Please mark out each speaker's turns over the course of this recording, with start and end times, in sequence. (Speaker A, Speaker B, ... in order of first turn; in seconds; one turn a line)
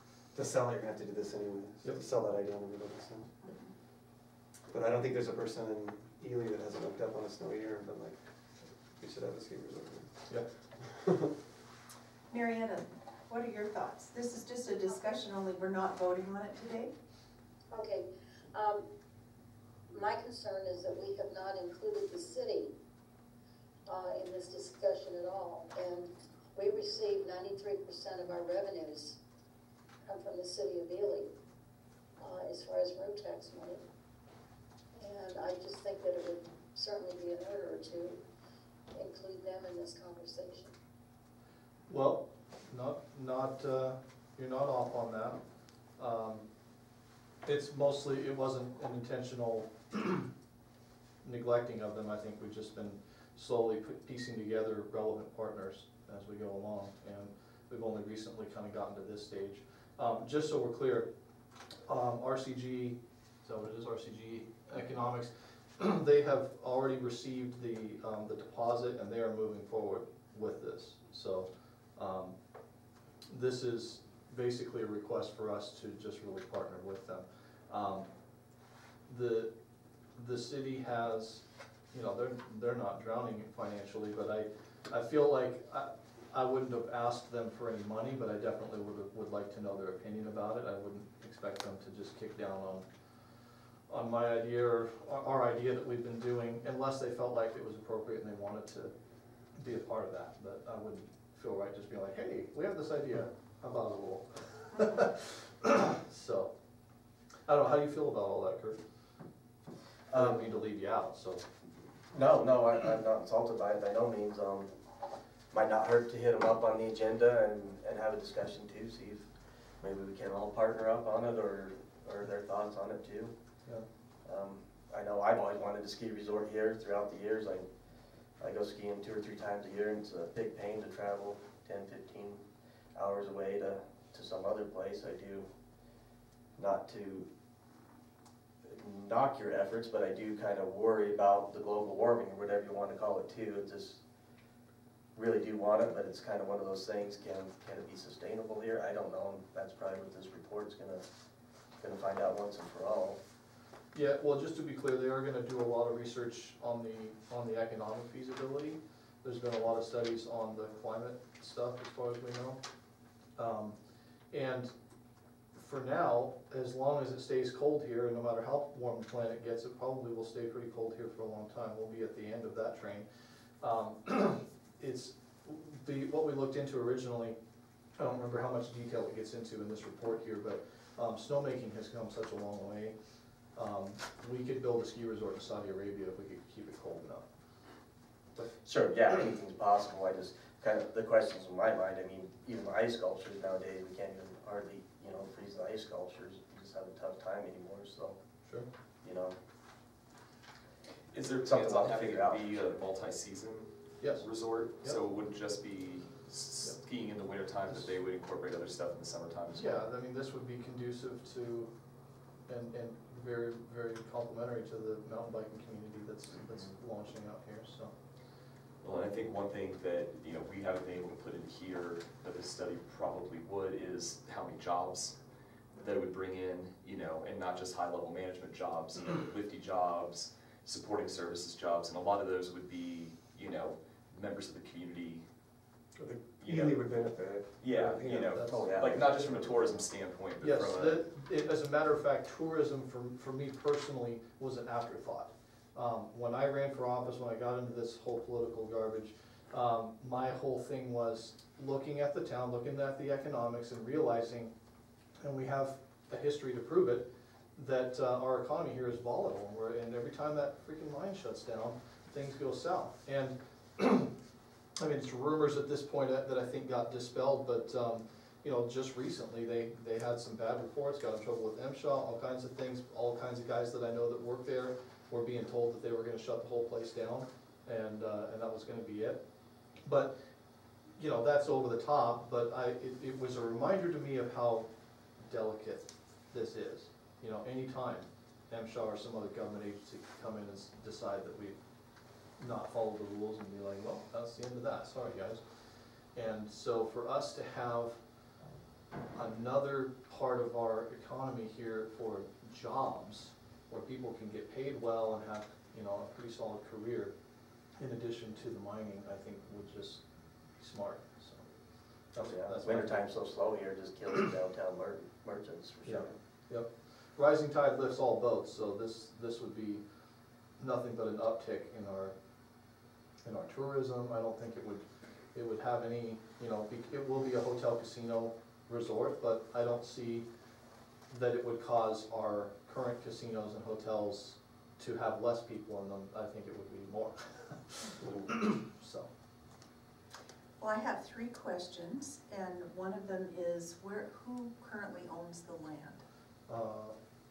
Speaker A: 0.3-3.5
Speaker B: 3.4-3.7
Speaker A: 4.7-11.4
Speaker B: 12.3-16.9
Speaker C: 17.7-18.9
Speaker C: 19.9-22.7
Speaker C: 23.9-29.2
Speaker C: 30.1-31.3
Speaker C: 32.2-33.8
Speaker C: 35.0-38.2
Speaker C: 38.9-40.7
Speaker D: 41.9-45.4
Speaker D: 46.0-46.5
Speaker D: 47.5-50.3
Speaker D: 51.2-61.1
Speaker D: 61.9-72.3
Speaker D: 73.3-78.1
Speaker D: 79.1-79.5
Speaker D: 80.2-92.9
Speaker D: 93.9-98.9
Speaker D: 99.6-106.5
Speaker D: 107.5-108.8
Speaker D: 110.1-111.5
Speaker E: 110.1-110.5
Speaker E: 112.1-114.7
Speaker E: 115.5-119.3
Speaker E: 119.8-123.3
Speaker E: 124.2-127.7
Speaker E: 128.4-135.5
Speaker E: 136.6-137.3
Speaker E: 138.7-144.0
Speaker E: 145.1-151.1
Speaker E: 151.8-153.2
Speaker D: 153.9-162.6
Speaker D: 163.4-163.8
Speaker D: 164.3-164.7
Speaker D: 165.5-173.1
Speaker D: 173.6-177.4
Speaker D: 178.0-183.0
Speaker D: 183.5-187.3
Speaker E: 188.5-198.2
Speaker E: 199.0-199.3
Speaker F: 201.1-209.8
Speaker E: 201.4-202.6
Speaker D: 204.0-204.3
Speaker D: 209.5-211.7
Speaker D: 212.5-217.9
Speaker F: 218.8-225.2
Speaker F: 225.8-235.2
Speaker A: 236.0-239.0
Speaker F: 236.4-236.8
Speaker F: 237.6-241.0
Speaker D: 238.3-238.8
Speaker E: 238.5-239.7
Speaker D: 240.4-254.5
Speaker D: 255.2-264.1
Speaker D: 264.8-279.2
Speaker D: 279.8-280.2
Speaker D: 281.0-291.6
Speaker D: 292.4-298.0
Speaker D: 299.1-307.1
Speaker D: 307.8-310.0
Speaker D: 310.6-311.5
Speaker D: 312.1-313.0
Speaker E: 312.2-316.1
Speaker D: 315.8-319.8
Speaker D: 320.6-322.2
Speaker D: 323.2-330.3
Speaker D: 331.1-339.1
Speaker B: 340.6-346.0
Speaker D: 346.5-347.0